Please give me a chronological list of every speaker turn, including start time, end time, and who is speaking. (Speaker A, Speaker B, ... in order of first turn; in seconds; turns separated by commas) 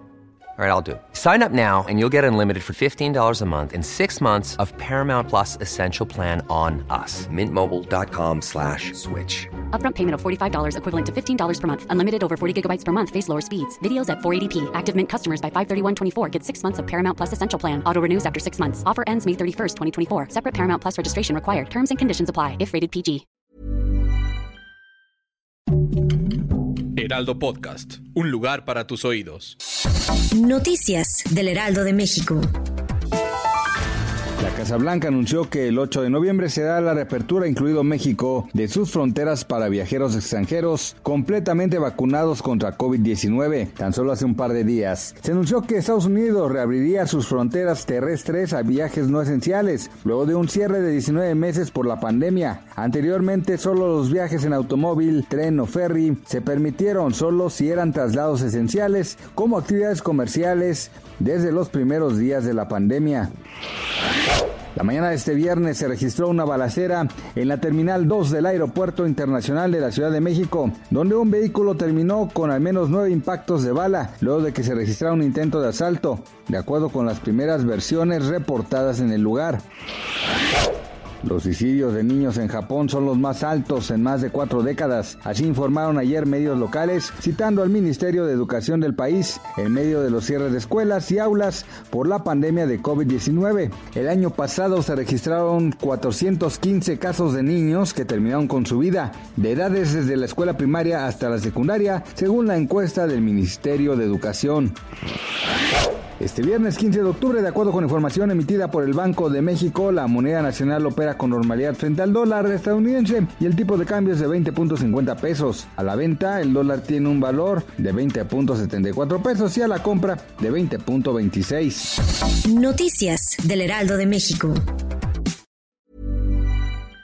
Speaker A: 0.6-9.5, Speaker B: 9.7-23.2, Speaker C: 27.0-29.5, Speaker D: 30.3-32.5, Speaker E: 34.4-63.3, Speaker E: 64.7-79.6, Speaker E: 81.2-104.8, Speaker E: 106.2-121.9, Speaker D: 122.3-124.6